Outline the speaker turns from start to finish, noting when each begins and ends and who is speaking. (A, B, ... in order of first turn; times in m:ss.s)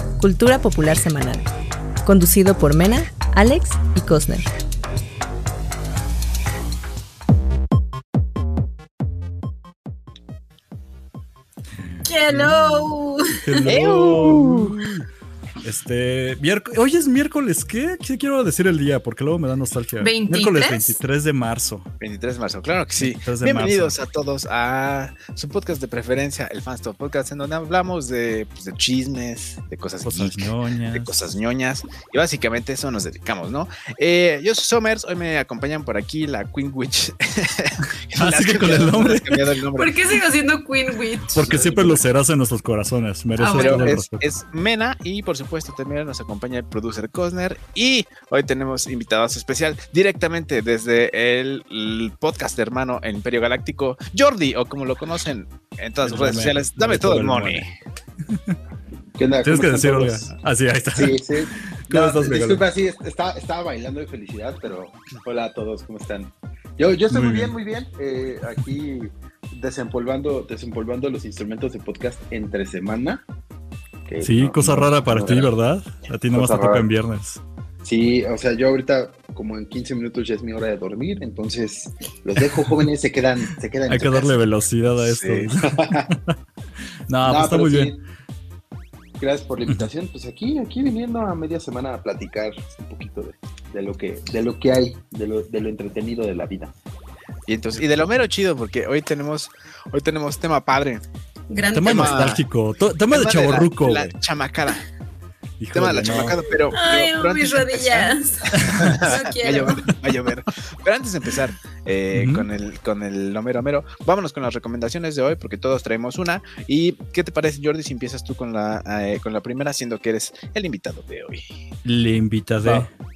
0:00.2-0:01.5 A
0:02.0-0:04.5 A
0:12.0-0:13.7 B
0:12.3-0:15.0 C
0:13.6-0:14.8 D
0:15.6-0:21.9 C
0:20.0-0:21.0 B
0:22.0-0:40.0 D
0:23.0-0:24.0 C
0:30.0-0:31.3 C
0:38.2-0:39.5 C
0:39.8-0:41.7 B
0:41.4-0:44.3 C
0:41.4-0:42.0 D
0:43.4-0:44.0 B
0:43.5-0:57.7 D
0:56.0-0:57.6 C
0:58.3-0:58.6 C
0:59.2-1:00.3 E
0:59.4-1:01.2 C
1:00.9-1:13.2 E
1:01.9-1:02.6 C
1:07.1-1:07.5 C
1:14.1-1:15.5 E
1:14.2-1:17.4 C
1:16.3-1:16.8 E
1:17.8-1:24.4 E
1:23.9-1:26.4 C
1:25.0-1:25.5 D
1:25.6-1:26.1 E
1:27.1-1:27.9 C
1:27.2-1:28.0 E
1:29.2-1:36.7 E
1:37.5-1:41.0 D
1:41.5-1:42.3 B
1:41.7-1:44.1 C
1:41.8-1:42.4 D
1:43.1-1:44.8 D
1:45.6-1:46.4 C
1:45.7-2:01.4 D
1:46.7-1:49.8 B
1:48.6-1:49.0 C
1:52.1-1:52.5 C
2:01.8-2:02.9 C